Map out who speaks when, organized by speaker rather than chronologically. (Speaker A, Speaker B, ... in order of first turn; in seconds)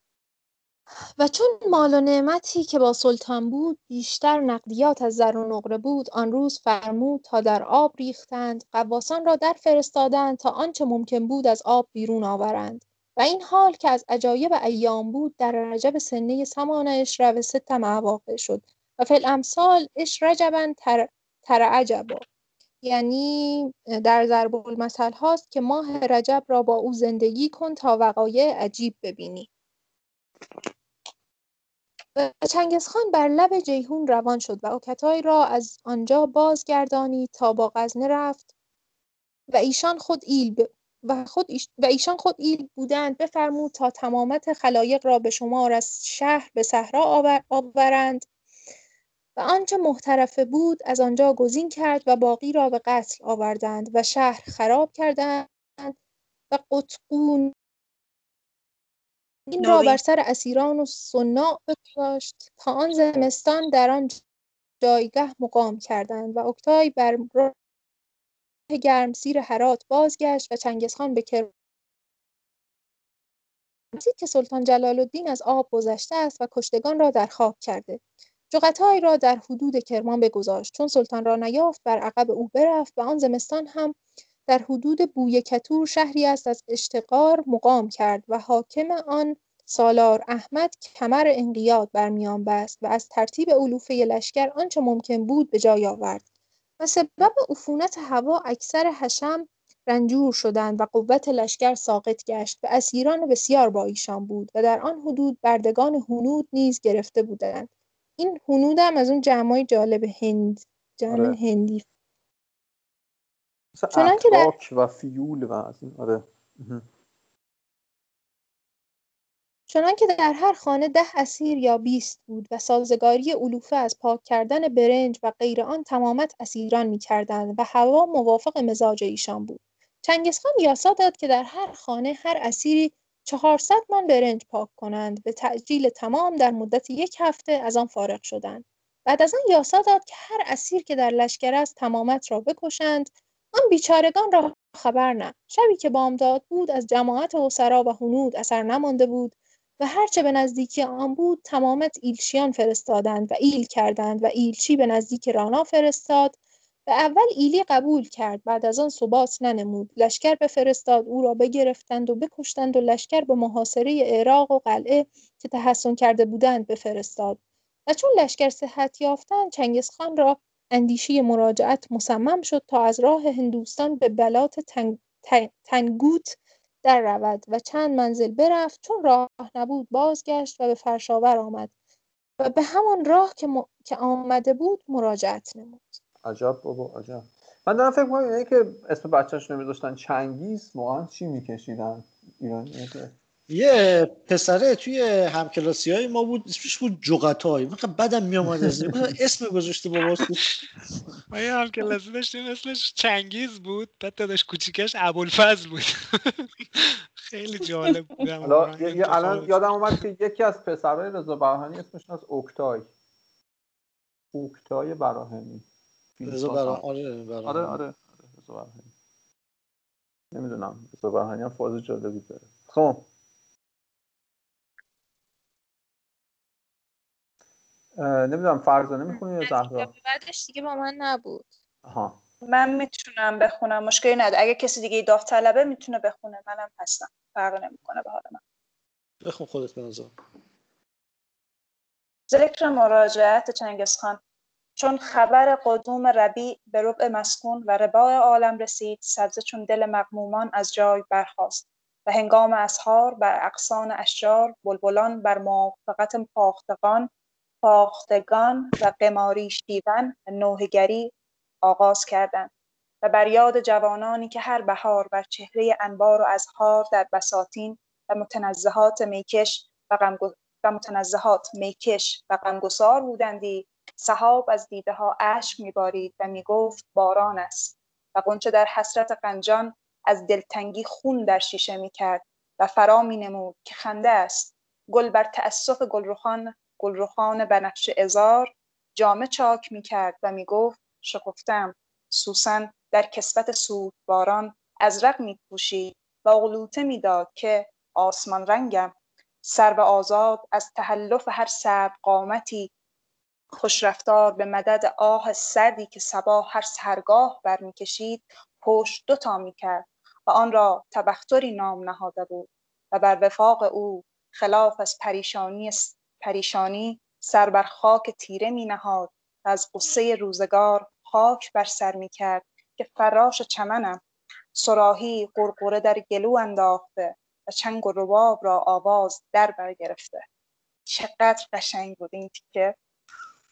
Speaker A: 1.2-22.2, 22.8-29.5, 32.1-38.5, 39.5-48.2, 49.4-55.9, 56.5-57.5, 59.5-64.2, 64.8-67.5, 68.7-71.5, 73.9-96.2, 96.8-111.8, 113.9-114.5, 119.7-181.7, 182.4-185.9, 229.1-231.5
Speaker B: 59.6-60.0, 232.5-238.4, 242.3-244.2, 244.8-257.1, 257.6-261.1, 261.6-262.5, 263.0-298.9, 299.4-302.7, 303.5-324.0, 324.5-330.2, 330.9-332.7
Speaker C: 111.1-111.4, 113.7-116.8, 186.2-193.1, 198.7-199.1, 208.4-212.9, 214.3-215.7, 216.2-216.8, 217.4-218.9, 220.3-223.1, 228.0-229.9, 231.8-232.2
Speaker D: 193.5-200.3, 216.2-217.8, 239.2-240.1
Speaker E: 201.3-209.7